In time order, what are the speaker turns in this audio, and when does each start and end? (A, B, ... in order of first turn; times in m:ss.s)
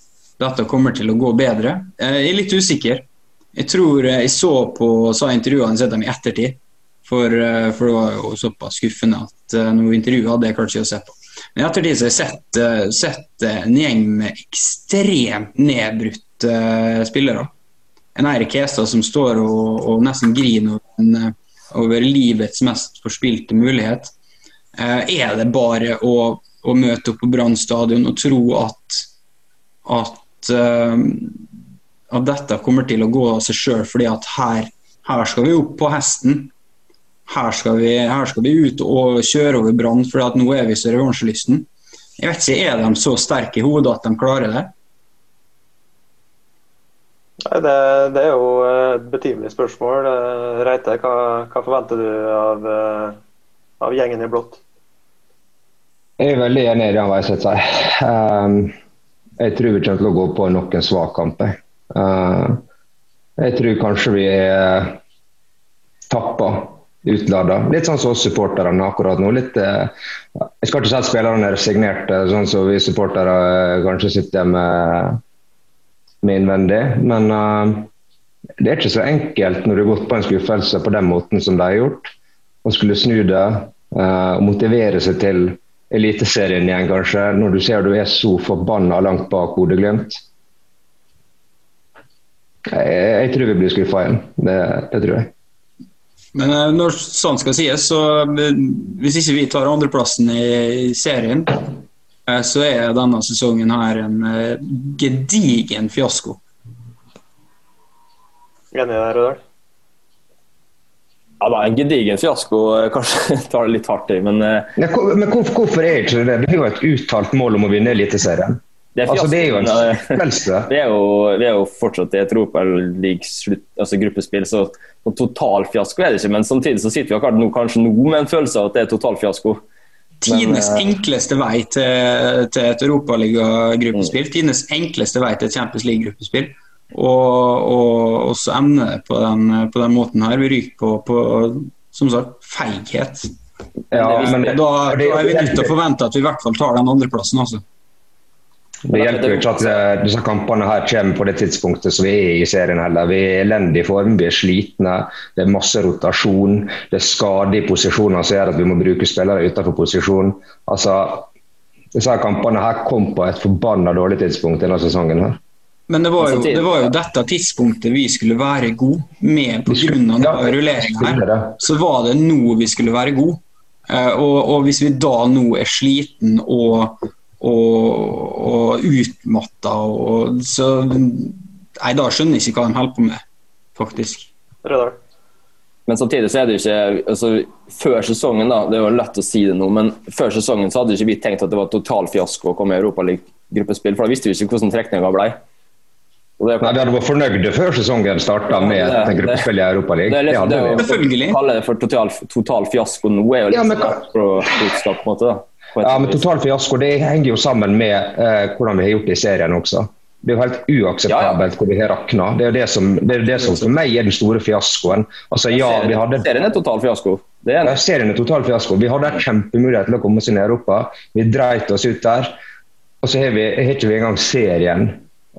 0:00.4-0:17.5 A
0:18.2-0:24.1 A
0:24.8-0:29.1 A
0:29.8-0:31.5 A
0:32.1-0:36.5 A
0:37.3-0:41.7 A
0:42.2-0:44.7 A
0:47.5-0:53.2 B
0:53.8-0:54.6 B
0:56.2-0:58.8 C
0:59.4-1:02.6 C
1:03.4-1:05.0 C
1:06.1-1:09.9 C
1:10.6-1:15.2 C
1:16.2-1:17.9 C
1:18.6-1:22.1 C
1:22.6-1:30.2 C
1:32.7-1:35.3 C
1:36.3-1:41.7 A
1:42.3-1:46.4 A
1:48.7-1:49.4 B
1:51.4-1:54.7 D
1:54.8-2:00.7 C
1:59.0-2:09.6 D
2:10.2-2:23.3 A
2:10.3-2:10.9 D
2:23.9-2:25.7 C
2:23.9-2:24.6 D
2:24.0-2:27.6 A
2:28.9-2:41.3 C
2:28.9-2:29.8 D
2:41.9-2:45.4 C
2:45.9-3:03.2 A
2:46.2-2:46.9 D
2:49.7-2:51.5 C
3:03.8-3:04.3 A
3:04.6-3:05.0 B
3:05.9-3:15.4 D
3:16.4-3:16.9 D
3:16.6-3:20.8 C
3:18.5-3:19.5 D
3:20.1-3:26.2 D
3:20.8-3:21.4 A
3:23.5-3:24.0 C
3:25.8-3:36.2 C
3:31.1-3:31.4 D
3:35.5-3:37.8 D
3:37.6-3:42.4 C
3:43.0-3:45.0 C